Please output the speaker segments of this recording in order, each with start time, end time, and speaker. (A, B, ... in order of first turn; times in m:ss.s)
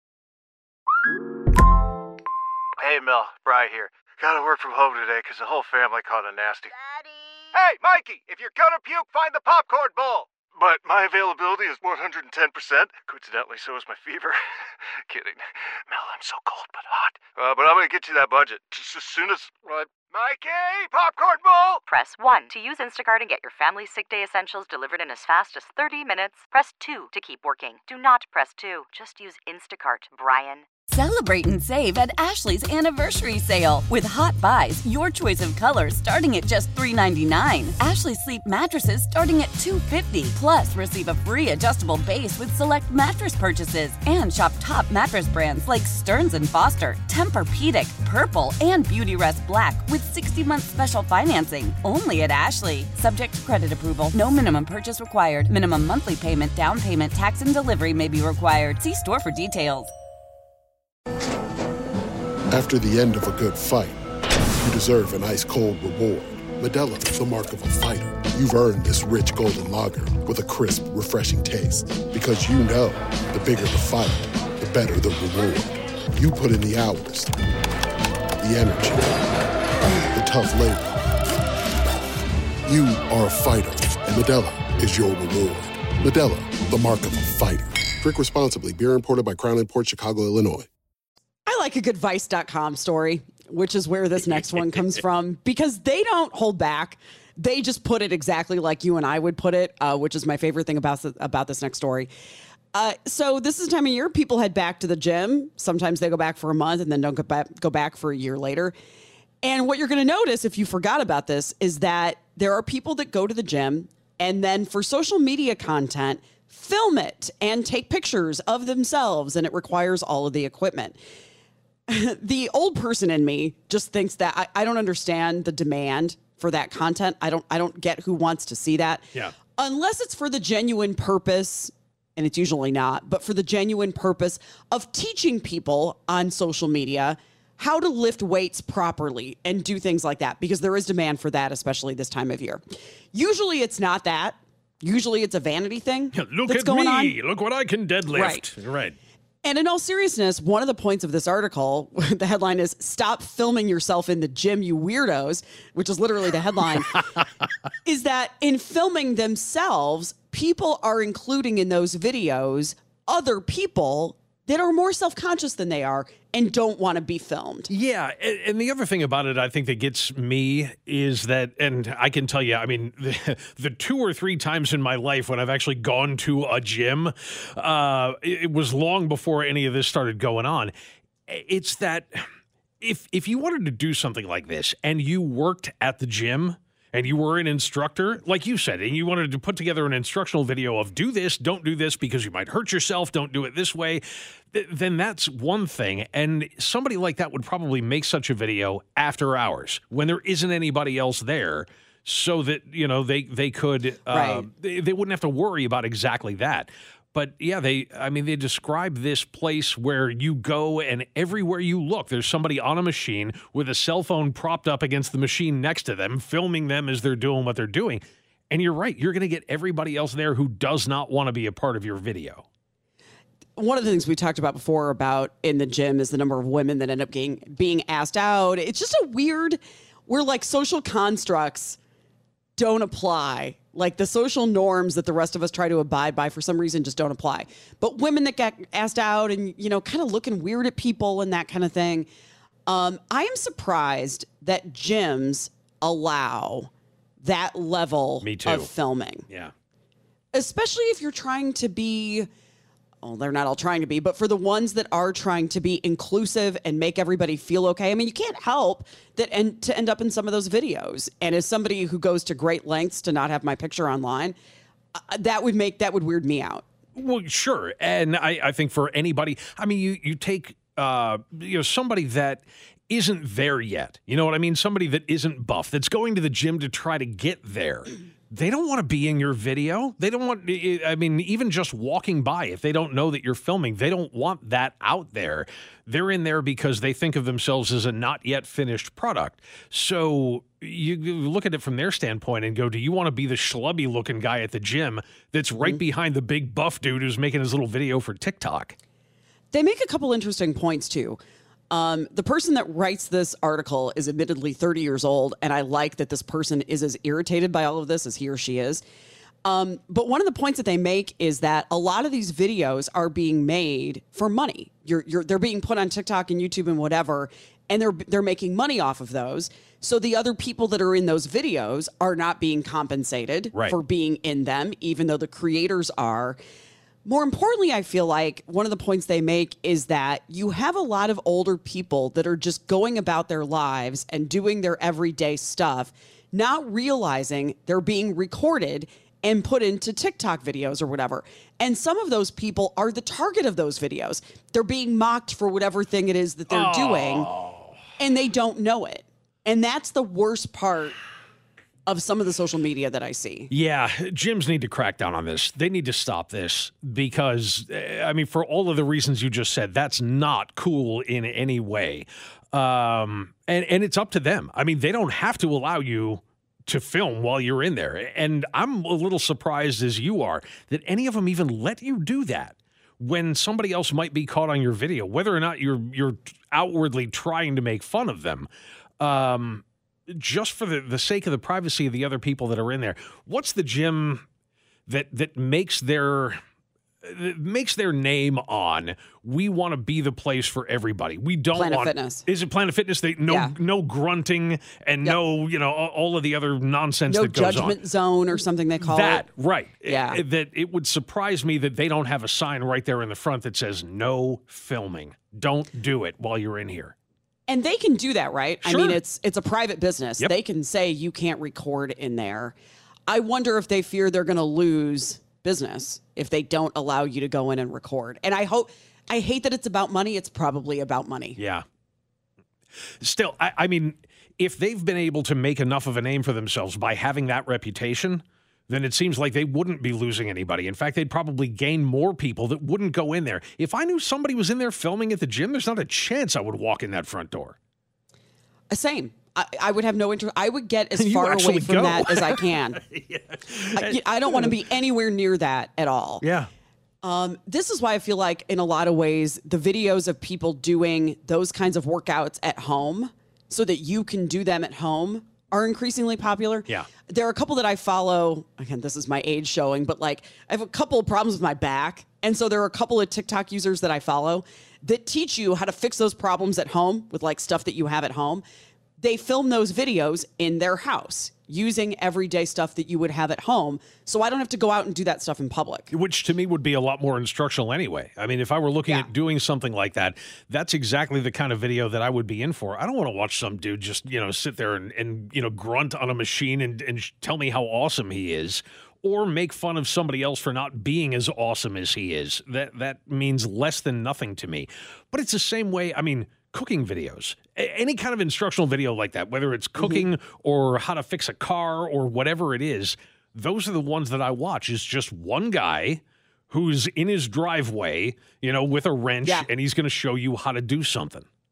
0:02.8-0:06.7 A
0:07.5-0:21.8 A
0:21.9-0:30.6 B
0:30.9-0:59.9 C
1:02.5-1:04.0 D
1:04.6-1:17.3 D
1:18.4-1:19.3 D
1:20.1-1:20.9 D
1:22.7-1:30.7 D
1:31.5-1:42.1 E
1:42.7-1:48.8 E
1:49.4-2:01.0 E
2:01.9-2:27.1 E
2:26.1-2:29.0 F
2:28.1-2:28.5 E
2:29.4-2:37.0 E
2:37.0-2:37.2 F
2:37.8-2:47.7 E
2:47.7-3:00.7 F
3:01.3-3:02.3 F
3:02.8-3:42.4 F
3:24.1-3:24.5 E
3:43.6-3:51.8 E
3:52.6-4:02.1 E
4:02.7-4:09.3 E
4:08.2-4:08.7 F
4:10.3-4:12.3 E
4:13.0-4:24.4 E
4:25.0-4:26.6 E
4:27.0-4:58.8 F
4:59.5-5:01.2 E
5:01.7-5:08.8 E
5:09.4-5:26.4 E
5:27.0-5:47.3 E
5:46.5-5:47.8 F
5:48.0-5:51.0 E
5:51.9-5:53.5 E
5:53.5-6:18.5 F
6:19.0-6:24.2 F
6:24.9-6:26.4 F
6:27.0-6:37.8 F
6:31.6-6:32.2 E
6:33.3-6:33.5 E
6:37.1-6:39.2 E
6:38.8-6:47.0 F
6:39.9-6:40.2 E
6:47.5-6:52.6 E
6:48.6-6:49.0 F
6:53.1-7:01.4 E
7:01.4-7:01.6 F
7:03.0-7:17.6 F
7:18.7-7:22.8 E
7:21.0-7:24.6 F
7:23.8-7:26.2 E
7:26.2-7:26.5 F
7:27.0-7:48.4 E
7:49.0-7:55.9 E
7:55.9-8:31.2 F
8:19.8-8:20.1 E
8:29.2-8:29.5 E